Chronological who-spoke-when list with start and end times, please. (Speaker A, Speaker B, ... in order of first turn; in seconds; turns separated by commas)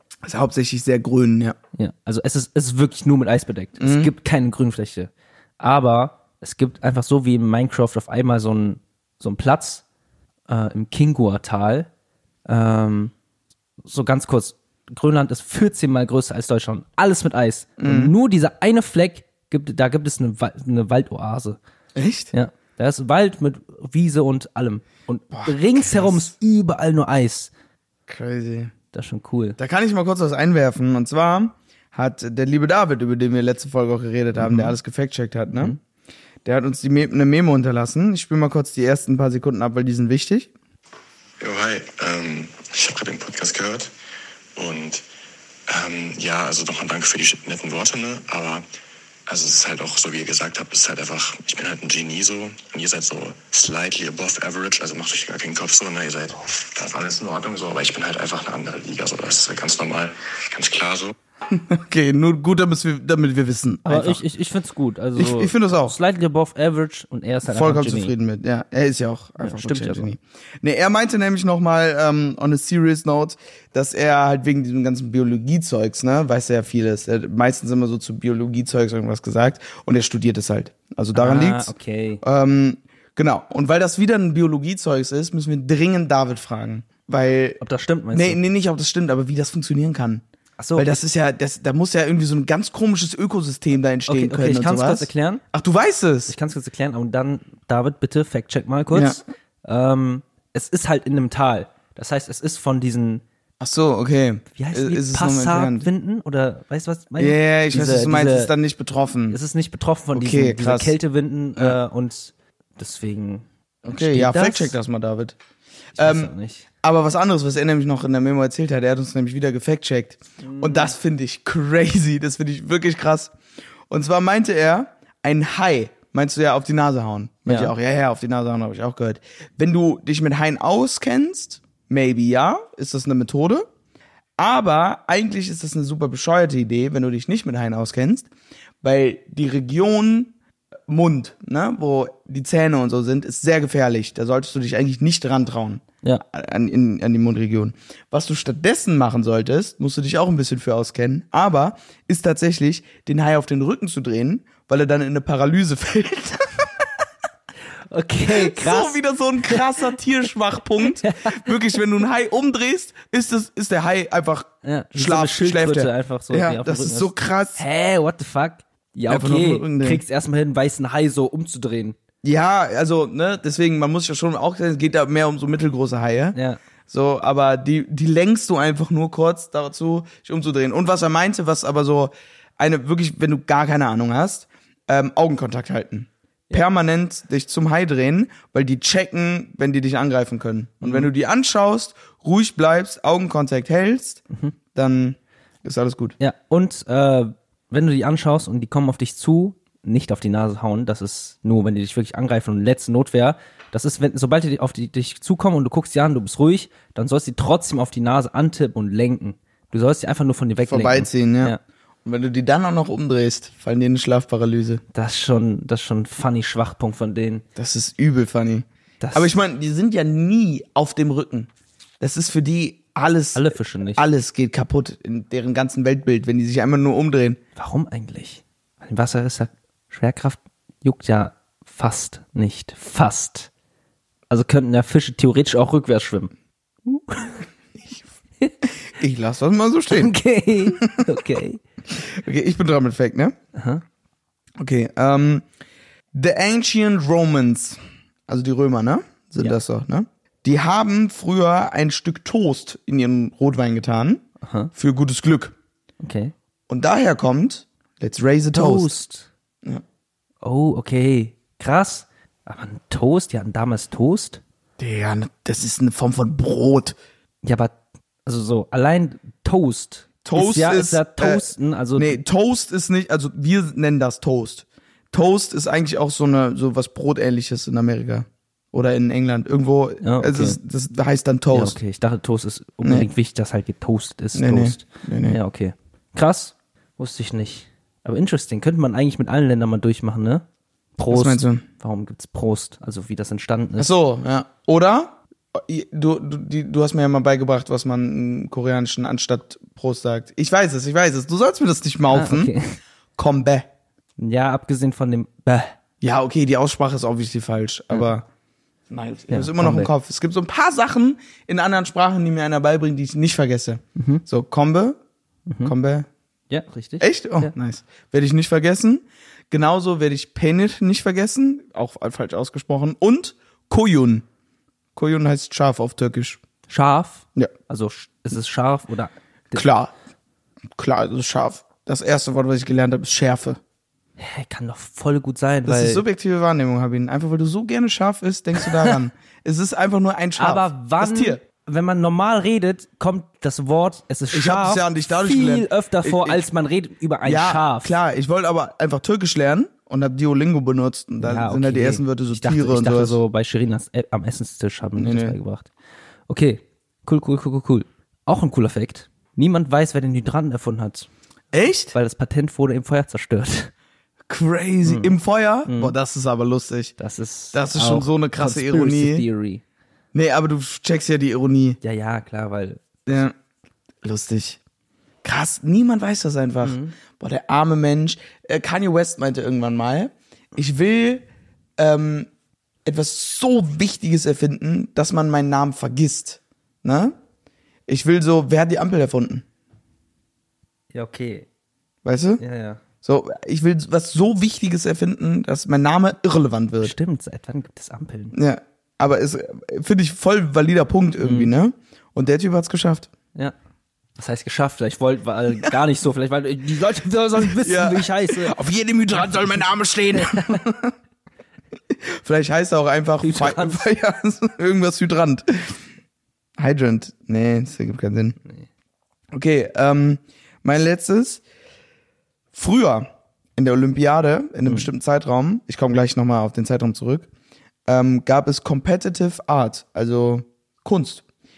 Speaker A: 0.2-1.6, Speaker B: 1.7-9.8, Speaker A: 3.8-4.1, Speaker B: 10.5-11.9, Speaker B: 12.4-13.1, Speaker B: 13.8-21.6, Speaker A: 17.8-18.1, Speaker A: 21.9-22.3, Speaker B: 22.3-27.5, Speaker A: 25.3-26.3, Speaker A: 28.1-28.7, Speaker B: 28.9-29.6, Speaker A: 29.6-35.8, Speaker B: 34.4-34.7, Speaker A: 36.4-40.5, Speaker C: 41.4-43.9, Speaker C: 44.5-45.0, Speaker C: 45.7-48.6, Speaker C: 49.3-61.1, Speaker A: 61.5-64.2, Speaker B: 63.9-68.1, Speaker A: 65.2-65.9, Speaker A: 67.5-87.6, Speaker B: 69.4-70.1, Speaker B: 81.1-82.2, Speaker B: 87.6-88.4, Speaker A: 88.1-90.2, Speaker B: 90.6-91.0, Speaker A: 90.8-96.3, Speaker B: 94.1-95.4, Speaker B: 96.3-103.2, Speaker A: 98.9-99.2, Speaker A: 103.6-105.9, Speaker B: 104.5-108.5, Speaker A: 107.2-109.4, Speaker B: 109.3-114.7, Speaker A: 110.1-111.0, Speaker A: 113.8-115.3, Speaker B: 116.0-116.7, Speaker A: 116.0-123.3, Speaker B: 120.4-120.9, Speaker A: 123.9-133.7, Speaker B: 127.5-127.7, Speaker A: 134.4-138.3, Speaker A: 138.8-140.3, Speaker A: 140.9-156.9, Speaker B: 157.9-159.8, Speaker A: 158.2-167.6, Speaker B: 160.8-161.5, Speaker B: 164.6-171.9, Speaker A: 169.1-170.0, Speaker A: 172.2-176.3, Speaker B: 176.3-176.6, Speaker A: 176.9-194.2, Speaker B: 190.8-191.1, Speaker A: 194.7-196.2, Speaker B: 196.2-211.6, Speaker A: 210.7-214.8, Speaker B: 214.9-217.4, Speaker A: 217.6-221.5, Speaker B: 219.0-219.3, Speaker A: 222.0-227.4, Speaker B: 223.3-224.0, Speaker B: 227.6-233.5, Speaker B: 234.3-236.3, Speaker B: 236.8-237.5, Speaker A: 238.7-240.1, Speaker B: 239.9-241.6, Speaker A: 240.7-241.2, Speaker A: 241.9-243.3, Speaker B: 243.5-243.8, Speaker A: 244.6-245.4, Speaker A: 246.1-254.2, Speaker B: 254.4-254.7, Speaker A: 254.7-255.5, Speaker B: 256.0-256.3, Speaker A: 256.7-258.9, Speaker B: 258.5-259.3, Speaker B: 260.4-264.4, Speaker A: 264.8-266.9, Speaker B: 267.4-267.7, Speaker B: 268.2-272.2, Speaker A: 270.2-281.8, Speaker B: 280.0-280.6, Speaker B: 281.5-290.4, Speaker A: 284.3-285.4, Speaker B: 291.0-293.9, Speaker A: 291.1-291.6, Speaker A: 293.8-302.5, Speaker B: 302.1-302.7, Speaker A: 303.2-303.7, Speaker B: 304.2-305.8, Speaker A: 306.0-308.2, Speaker A: 308.9-315.0, Speaker B: 309.3-309.9, Speaker B: 313.9-314.2, Speaker B: 315.5-315.7, Speaker A: 315.6-316.1, Speaker B: 316.5-317.5, Speaker A: 317.0-324.2, Speaker A: 324.9-326.4, Speaker B: 326.7-329.6, Speaker A: 329.5-329.9, Speaker A: 330.8-333.6, Speaker B: 334.2-336.0, Speaker A: 335.6-341.4, Speaker B: 338.6-338.9, Speaker B: 340.4-348.0, Speaker A: 344.3-346.4, Speaker A: 347.2-353.2, Speaker B: 351.2-355.7, Speaker A: 355.0-355.4, Speaker B: 356.3-361.1, Speaker A: 361.5-361.9, Speaker B: 361.9-363.7, Speaker A: 364.3-366.9, Speaker B: 364.8-365.1, Speaker B: 365.6-365.9, Speaker B: 367.0-369.6, Speaker A: 367.5-369.2, Speaker A: 370.1-371.8, Speaker B: 371.8-373.1, Speaker A: 373.1-373.3, Speaker A: 374.0-374.6, Speaker A: 375.2-381.2, Speaker B: 376.6-376.9, Speaker A: 381.8-382.3, Speaker A: 382.8-387.1, Speaker A: 387.9-389.4, Speaker B: 390.9-391.5, Speaker A: 392.0-392.4, Speaker B: 392.4-392.8, Speaker A: 393.0-396.9, Speaker B: 396.8-398.4, Speaker A: 398.3-403.1, Speaker B: 401.2-401.5, Speaker B: 404.2-408.6, Speaker A: 407.4-410.9, Speaker B: 409.2-409.5, Speaker B: 410.1-410.6, Speaker A: 411.9-415.8, Speaker B: 413.2-413.8, Speaker A: 416.6-418.4, Speaker A: 419.3-421.4, Speaker A: 422.5-427.3, Speaker A: 427.9-431.2